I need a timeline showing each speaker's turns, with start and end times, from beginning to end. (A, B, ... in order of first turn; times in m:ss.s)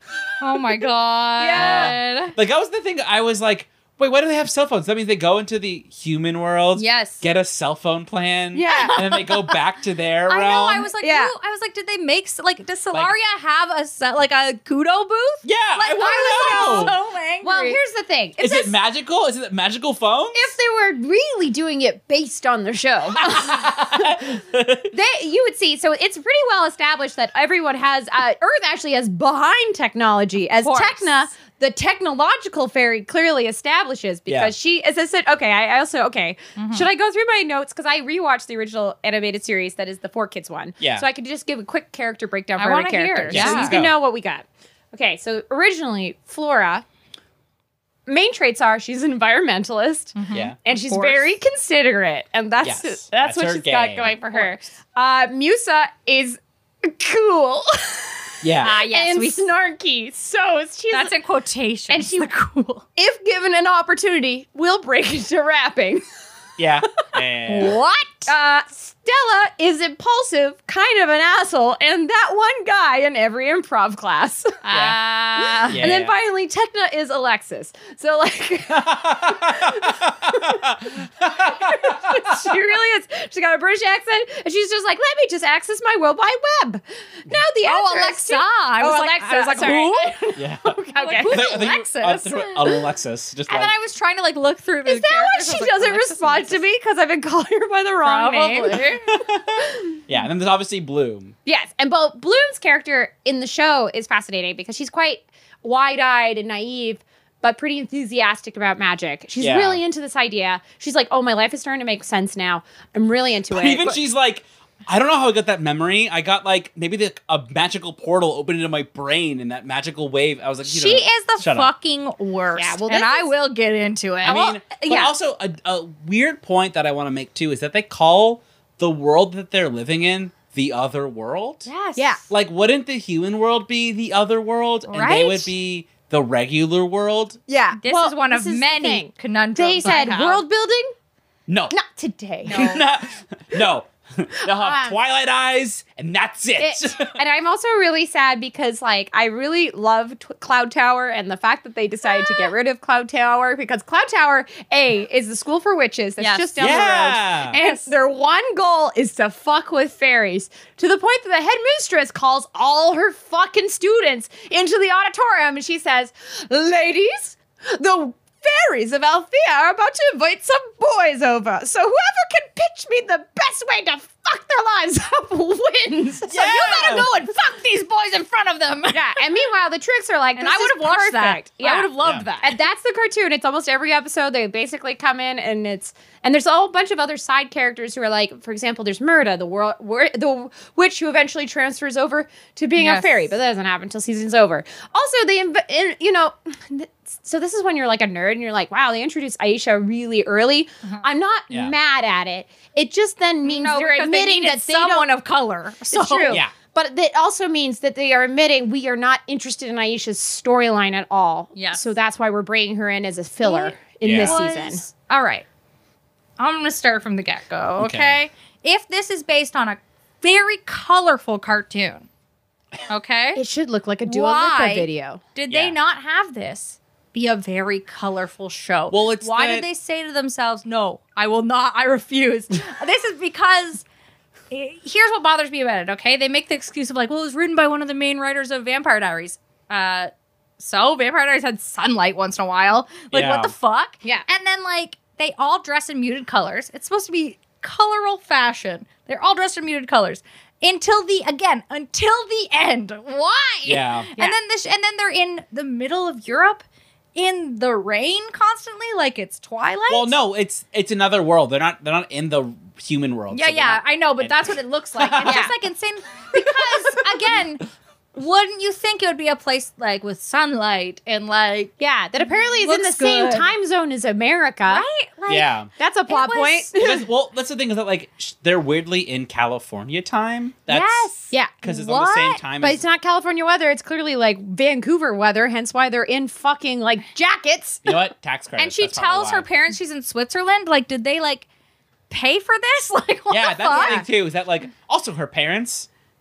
0:00.4-0:02.4 A
0:01.4-0:02.0 B
0:01.5-0:10.9 C
0:06.8-0:07.3 A
0:08.5-0:09.0 B
0:08.7-0:09.6 A
0:10.3-0:17.8 A
0:11.0-0:11.3 B
0:15.4-0:17.0 C
0:16.1-0:18.8 B
0:18.4-0:20.5 C
0:20.3-0:23.7 B
0:23.2-0:24.9 C
0:24.9-0:46.8 B
0:30.6-0:31.1 A
0:34.3-0:34.5 C
0:36.6-0:36.9 A
0:40.8-0:41.1 C
0:42.6-0:43.8 A
0:43.3-0:44.0 C
0:48.1-1:01.1 B
0:50.2-0:51.4 A
0:50.3-0:50.6 C
0:52.6-0:54.1 C
0:54.2-0:54.6 A
0:58.4-0:58.8 C
0:58.6-0:59.5 A
1:00.9-1:02.8 A
1:01.9-1:02.3 B
1:03.0-1:06.0 B
1:06.6-1:07.8 C
1:07.5-1:08.3 A
1:07.6-1:31.6 B
1:14.7-1:15.8 A
1:14.7-1:15.0 C
1:15.7-1:16.1 C
1:18.7-1:22.5 C
1:27.6-1:30.3 A
1:30.4-1:33.7 C
1:31.0-1:32.7 A
1:33.5-1:36.6 A
1:34.9-1:38.9 B
1:38.0-1:39.1 A
1:39.1-1:41.4 C
1:39.6-1:40.0 B
1:41.5-1:54.0 B
1:49.4-1:49.8 C
1:53.5-2:01.7 C
2:00.6-2:04.8 A
2:02.6-2:03.3 B
2:04.2-2:11.7 C
2:04.7-2:05.1 B
2:11.7-2:12.2 A
2:12.0-2:12.2 B
2:12.3-2:17.4 C
2:14.9-2:15.5 A
2:17.5-2:20.9 B
2:17.8-2:20.4 A
2:21.5-2:21.7 C
2:21.7-2:22.8 B
2:22.5-2:22.8 A
2:22.5-2:27.2 C
2:24.4-2:25.0 B
2:26.6-2:56.9 B
2:36.2-2:36.8 A
2:36.6-2:37.6 C
2:37.6-2:37.9 A
2:56.3-2:57.1 C
2:56.4-2:59.2 A
2:58.9-3:25.1 B
3:00.4-3:02.6 A
3:02.0-3:02.3 C
3:12.8-3:13.3 A
3:23.4-3:26.4 A
3:25.9-3:34.9 B
3:31.6-3:31.8 A
3:33.4-3:35.4 A
3:34.0-3:34.4 C
3:36.4-3:42.1 A
3:37.8-3:38.2 C
3:42.9-3:43.4 A
3:43.4-3:45.2 B
3:44.1-3:53.8 A
3:45.5-3:45.8 C
3:48.9-3:49.7 C
3:54.5-4:16.6 A
4:03.1-4:03.5 C
4:13.6-4:14.1 C
4:17.2-4:20.2 A
4:19.9-4:25.5 C
4:23.3-4:33.5 A
4:25.2-4:25.5 B
4:26.4-4:27.1 C
4:31.8-4:34.9 B
4:34.7-4:35.5 A
4:35.3-4:35.7 C
4:35.8-4:37.0 B
4:36.1-4:36.7 A
4:36.8-4:42.8 C
4:40.7-4:42.4 A
4:41.3-4:41.6 B
4:42.6-4:47.9 B
4:47.8-4:49.5 C
4:48.6-4:51.5 A
4:52.1-4:54.0 A
4:53.3-4:55.9 C
4:53.8-4:54.0 B